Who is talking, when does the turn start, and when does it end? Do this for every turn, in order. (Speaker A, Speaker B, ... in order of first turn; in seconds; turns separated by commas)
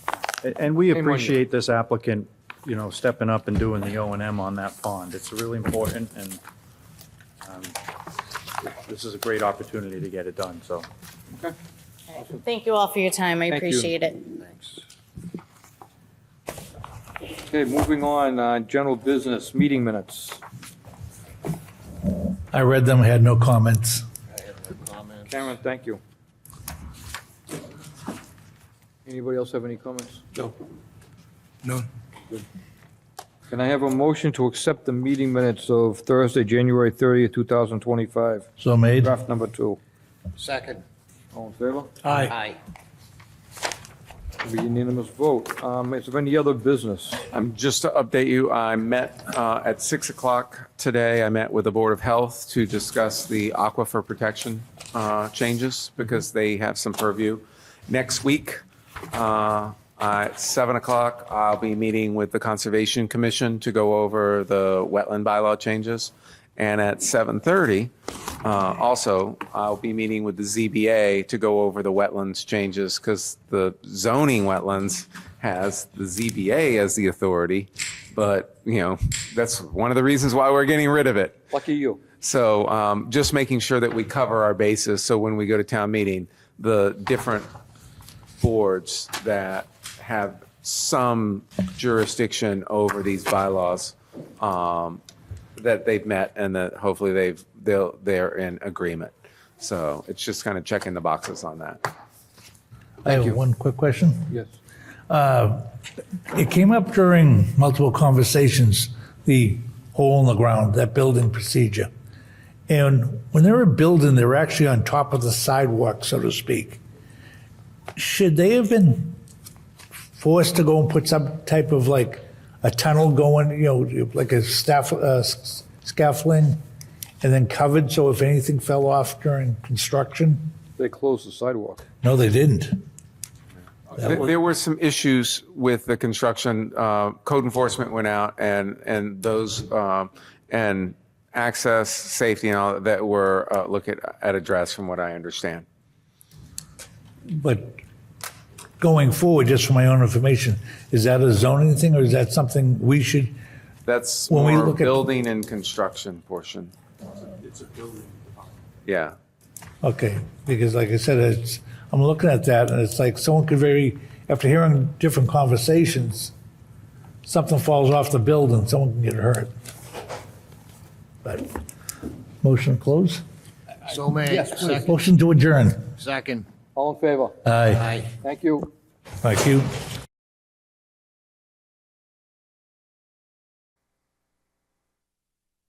Speaker A: 0.4-6.4, Speaker B: 0.9-1.4, Speaker A: 7.5-7.7, Speaker A: 8.9-10.8, Speaker C: 12.1-14.4, Speaker B: 13.5-13.9, Speaker B: 17.5-20.4, Speaker D: 22.5-24.0, Speaker E: 24.7-25.2, Speaker B: 25.3-26.0, Speaker B: 29.1-30.2, Speaker B: 33.5-38.5, Speaker D: 38.6-39.1, Speaker B: 39.0-39.8, Speaker E: 40.4-40.8, Speaker B: 41.3-41.9, Speaker D: 42.1-42.3, Speaker E: 42.3-42.5, Speaker B: 44.4-47.2, Speaker F: 47.3-67.9, Speaker F: 68.4-81.5, Speaker B: 81.5-82.0, Speaker F: 82.2-87.5, Speaker F: 88.4-95.0, Speaker F: 95.6-101.9, Speaker D: 103.0-104.3, Speaker D: 105.1-105.7, Speaker D: 106.3-111.9, Speaker D: 112.7-116.8, Speaker D: 118.0-119.2, Speaker D: 120.2-126.6, Speaker D: 127.2-130.4, Speaker B: 130.8-131.8, Speaker D: 132.0-132.8, Speaker F: 133.9-145.7, Speaker D: 147.4-147.8, Speaker D: 148.8-153.3, Speaker F: 153.9-156.7, Speaker D: 154.3-155.0, Speaker F: 158.8-159.2, Speaker D: 159.8-166.3, Speaker D: 167.2-169.5, Speaker D: 172.4-173.2, Speaker E: 173.9-174.9, Speaker D: 174.7-175.9, Speaker E: 176.0-176.5, Speaker B: 176.8-177.3, Speaker D: 177.4-177.9, Speaker E: 177.8-178.1, Speaker B: 178.2-178.6, Speaker D: 179.2-179.7